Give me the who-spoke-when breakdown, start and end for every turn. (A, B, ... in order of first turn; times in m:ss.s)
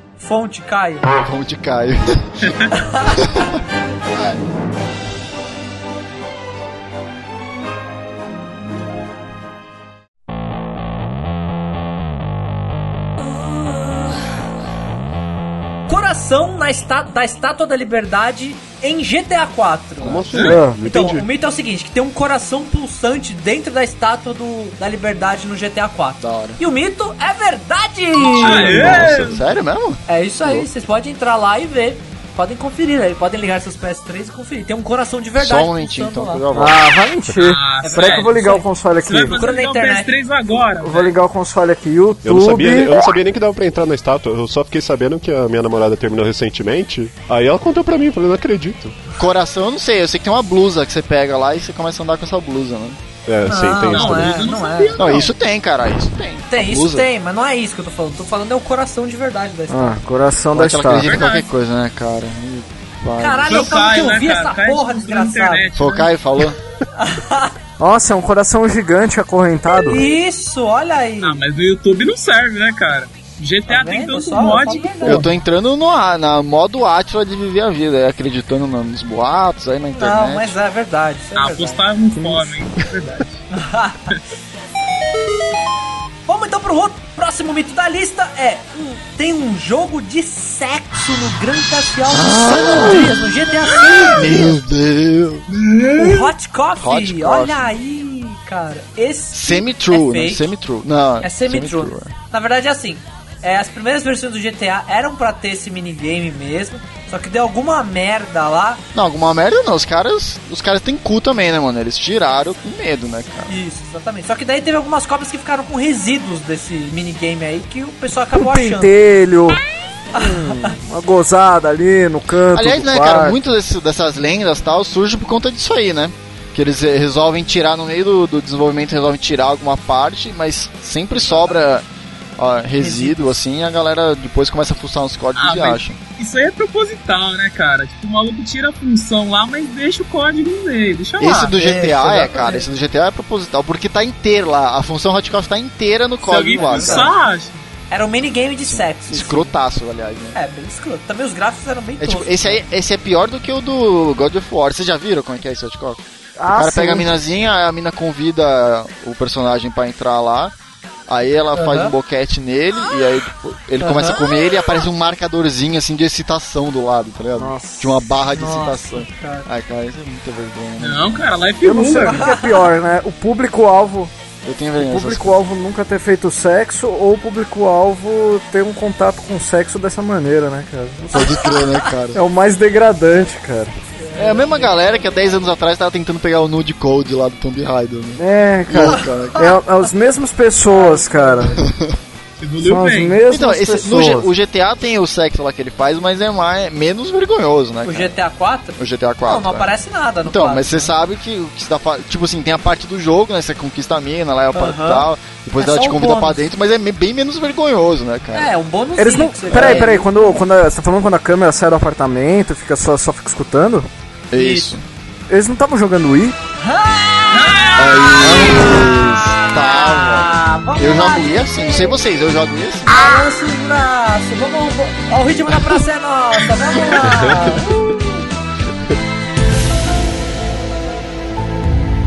0:00.2-0:01.1 A
0:01.2-0:02.5 B
0:02.4-0:02.7 C
0:02.7-0:03.2 A
0:03.2-0:03.6 B
0:15.9-0:29.1 A
0:20.0-0:21.3 D
0:20.3-0:20.6 C
0:20.4-0:20.8 E
0:26.2-0:26.6 B
0:28.3-0:30.7 B
0:28.3-0:29.4 C
0:30.1-0:36.4 A
0:35.4-0:36.9 B
0:36.5-0:39.4 E
0:37.3-0:41.2 C
0:37.8-0:38.6 A
0:39.3-0:40.1 A
0:40.8-0:43.0 E
0:42.2-0:49.0 D
0:49.2-0:53.0 B
0:53.2-0:54.4 D
0:53.5-0:55.2 A
0:53.9-0:55.3 C
0:55.0-0:57.1 B
0:56.5-1:00.0 A
0:59.7-1:01.1 E
1:00.5-1:03.7 B
1:01.0-1:01.5 C
1:03.2-1:05.7 A
1:03.5-1:06.1 C
1:05.7-1:06.6 B
1:07.0-1:07.5 A
1:07.8-1:10.0 E
1:09.8-1:11.4 A
1:11.2-1:15.3 C
1:13.7-1:15.3 A
1:15.0-1:20.6 B
1:19.9-1:21.8 A
1:21.4-1:23.4 C
1:22.1-1:22.5 E
1:23.5-1:24.1 A
1:26.3-1:34.6 A
1:32.1-1:33.2 B
1:34.0-1:35.5 B
1:35.5-1:36.3 C
1:36.0-1:40.5 A
1:36.8-1:37.7 B
1:39.3-1:42.1 B
1:41.2-1:48.8 A
1:48.9-1:53.6 B
1:53.5-1:58.9 A
1:58.3-1:59.6 E
2:00.1-2:00.7 A
2:00.1-2:03.4 E
2:02.5-2:11.8 B
2:11.1-2:11.6 A
2:12.4-2:16.0 B
2:12.8-2:13.2 A
2:15.4-2:21.6 C
2:21.2-2:27.1 B
2:21.6-2:22.7 A
2:26.2-2:27.6 C
2:26.6-2:27.1 A
2:27.9-2:29.5 A
2:28.6-2:30.4 B
2:30.3-2:32.6 A
2:32.0-2:36.0 B
2:36.4-2:37.1 E
2:36.5-2:40.5 B
2:41.1-2:51.2 B
2:41.5-2:41.9 A
2:43.8-2:44.2 A
2:47.4-2:47.9 E
2:48.3-2:49.5 A
2:50.8-2:52.3 C
2:51.6-2:54.1 E
2:52.0-2:52.7 A
2:54.4-2:55.4 B
2:54.8-3:01.6 E
3:01.1-3:02.2 B
3:02.1-3:03.7 E
3:04.0-3:05.1 A
3:04.1-3:09.5 B
3:08.2-3:11.6 E
3:10.7-3:11.6 A
3:11.5-3:11.9 B
3:12.4-3:13.2 C
3:12.6-3:14.3 E
3:13.3-3:18.2 B
3:17.8-3:20.9 A
3:18.8-3:19.7 B
3:20.2-3:28.5 B
3:24.5-3:26.5 A
3:28.3-3:30.4 A
3:29.0-3:33.9 E
3:29.5-3:30.0 B
3:34.3-3:34.8 B
3:34.3-3:34.8 A
3:35.3-3:36.4 E
3:36.6-3:42.0 A
3:37.3-3:38.3 C
3:37.8-3:43.0 B
3:42.9-3:47.9 A
3:47.0-3:47.8 D